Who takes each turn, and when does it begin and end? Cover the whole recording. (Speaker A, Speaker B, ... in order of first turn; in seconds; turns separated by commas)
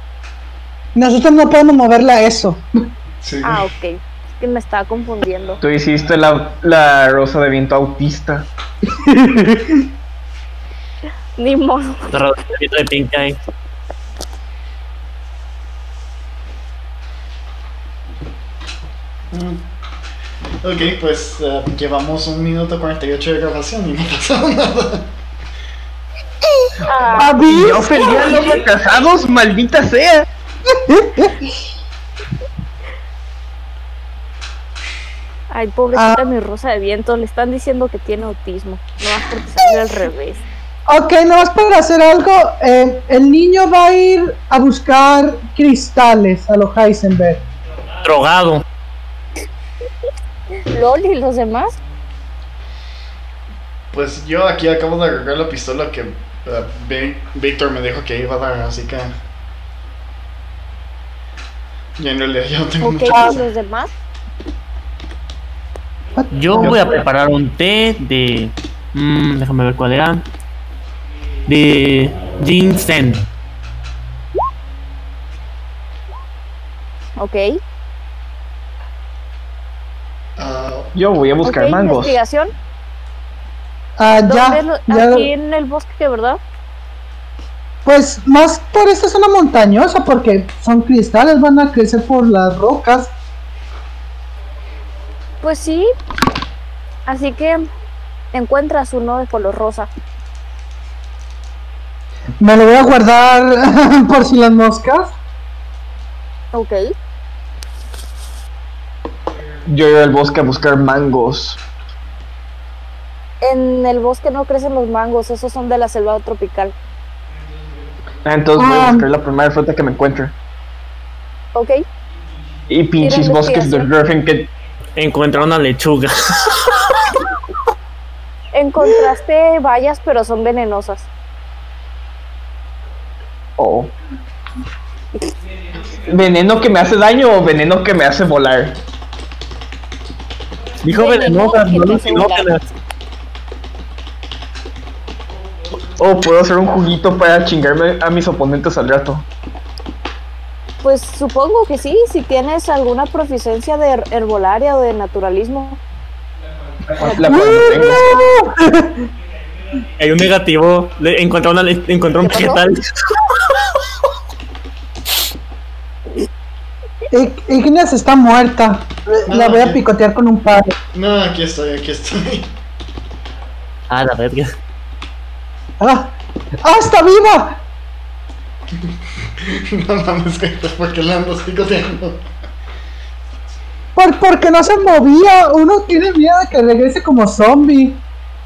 Speaker A: 0.9-2.6, Speaker B: 3.2-3.6, Speaker C: 3.4-5.6, Speaker D: 5.6-8.5, Speaker A: 9.0-9.8, Speaker C: 11.4-12.1, Speaker E: 12.1-13.4, Speaker B: 19.3-19.6, Speaker B: 20.6-25.1, Speaker C: 26.9-27.4, Speaker A: 27.1-28.3, Speaker D: 27.5-30.3, Speaker C: 28.0-28.5, Speaker A: 30.7-31.4, Speaker C: 35.5-40.4, Speaker A: 35.9-36.2, Speaker A: 40.9-47.4, Speaker E: 48.0-48.6, Speaker C: 50.7-51.8, Speaker B: 53.9-59.1, Speaker B: 62.0-63.4, Speaker C: 62.8-63.9, Speaker A: 63.1-63.4, Speaker A: 66.2-67.0, Speaker E: 66.3-70.2, Speaker E: 71.5-73.2, Speaker C: 77.2-77.6, Speaker B: 80.4-80.9, Speaker D: 80.9-82.2, Speaker C: 81.4-82.5, Speaker A: 84.0-85.3, Speaker C: 84.2-86.4, Speaker A: 87.8-93.1, Speaker C: 95.4-95.9, Speaker C: 97.0-97.6, Speaker C: 98.3-99.9, Speaker A: 102.4-105.1, Speaker C: 106.5-106.8, Speaker D: 109.7-111.6, Speaker C: 113.4-116.7, Speaker D: 118.2-120.3, Speaker A: 118.5-119.1, Speaker C: 121.5-121.8, Speaker D: 122.7-124.5, Speaker C: 123.0-123.9, Speaker E: 125.0-126.6, Speaker C: 128.5-131.1, Speaker D: 133.6-133.9, Speaker D: 136.1-138.8, Speaker E: 140.8-142.6, Speaker C: 140.9-142.5, Speaker D: 146.0-149.2, Speaker C: 150.8-155.8, Speaker D: 156.9-158.0, Speaker C: 157.0-158.2, Speaker A: 157.2-159.0, Speaker E: 160.0-162.8, Speaker C: 162.2-162.6, Speaker A: 167.1-170.8, Speaker B: 169.3-169.8, Speaker B: 170.9-172.5, Speaker E: 173.9-174.5, Speaker A: 175.8-177.6, Speaker B: 179.4-182.2, Speaker A: 183.9-188.0